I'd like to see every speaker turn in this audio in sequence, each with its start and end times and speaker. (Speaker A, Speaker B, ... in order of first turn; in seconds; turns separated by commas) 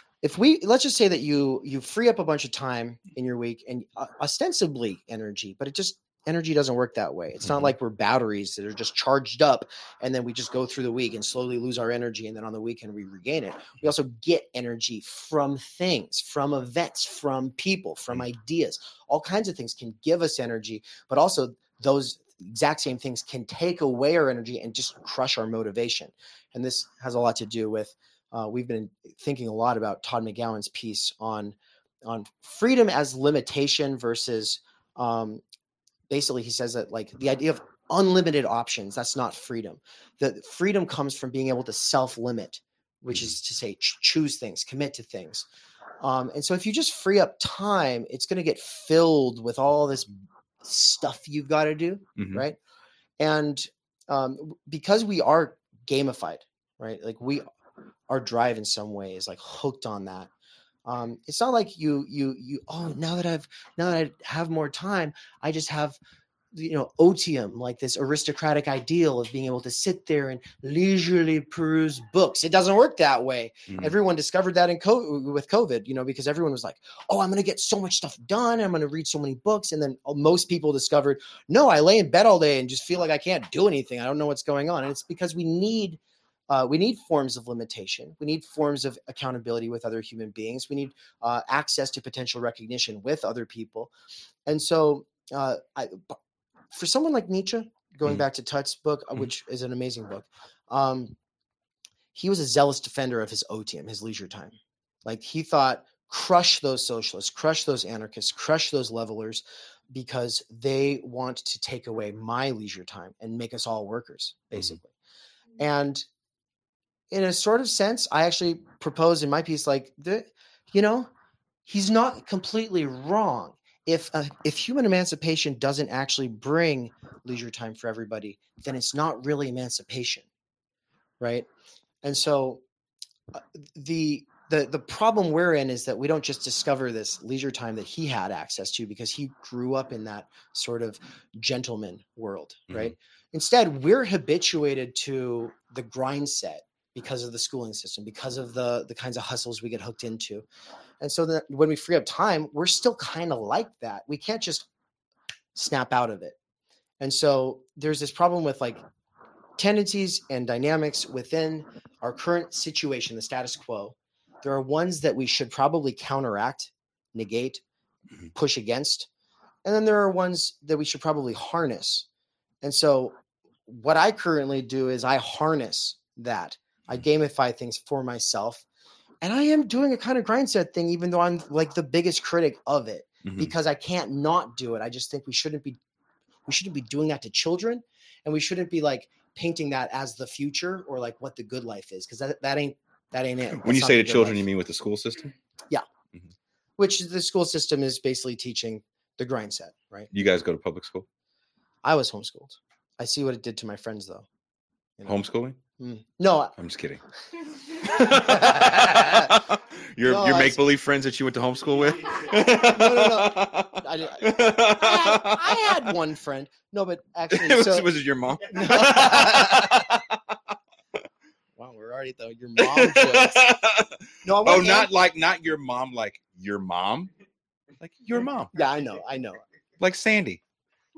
Speaker A: 0.2-35.4, Speaker B: 7.4-7.7, Speaker A: 36.1-45.5, Speaker A: 46.0-50.1, Speaker A: 50.6-52.6, Speaker B: 52.2-52.5, Speaker A: 53.2-57.5, Speaker A: 58.1-60.3, Speaker A: 60.9-66.0, Speaker A: 66.5-93.9, Speaker B: 73.7-74.0, Speaker A: 94.5-96.2, Speaker A: 96.7-101.2, Speaker A: 102.2-114.9, Speaker A: 115.6-116.0, Speaker A: 117.1-121.1, Speaker A: 121.7-130.3, Speaker A: 131.2-131.5, Speaker A: 132.0-132.6, Speaker A: 133.3-150.4, Speaker B: 142.7-142.9, Speaker A: 151.0-154.7, Speaker A: 155.6-156.4, Speaker A: 157.0-158.8, Speaker A: 159.6-167.6, Speaker A: 168.3-169.1, Speaker A: 169.7-172.1, Speaker A: 172.6-173.2, Speaker A: 173.7-178.6, Speaker A: 179.2-185.8, Speaker B: 183.2-183.5, Speaker A: 186.5-194.4, Speaker B: 193.6-195.3, Speaker A: 196.8-200.1, Speaker B: 200.1-201.1, Speaker A: 201.8-204.2, Speaker B: 205.1-205.6, Speaker A: 205.8-206.6, Speaker B: 206.6-207.0, Speaker A: 207.7-209.4, Speaker B: 207.8-215.9, Speaker A: 210.0-210.6, Speaker A: 212.3-217.9, Speaker B: 217.3-220.4, Speaker A: 218.5-219.8, Speaker A: 221.6-223.5, Speaker B: 222.6-227.1, Speaker A: 224.2-224.9, Speaker B: 227.8-228.6, Speaker A: 228.5-229.4, Speaker B: 229.8-230.4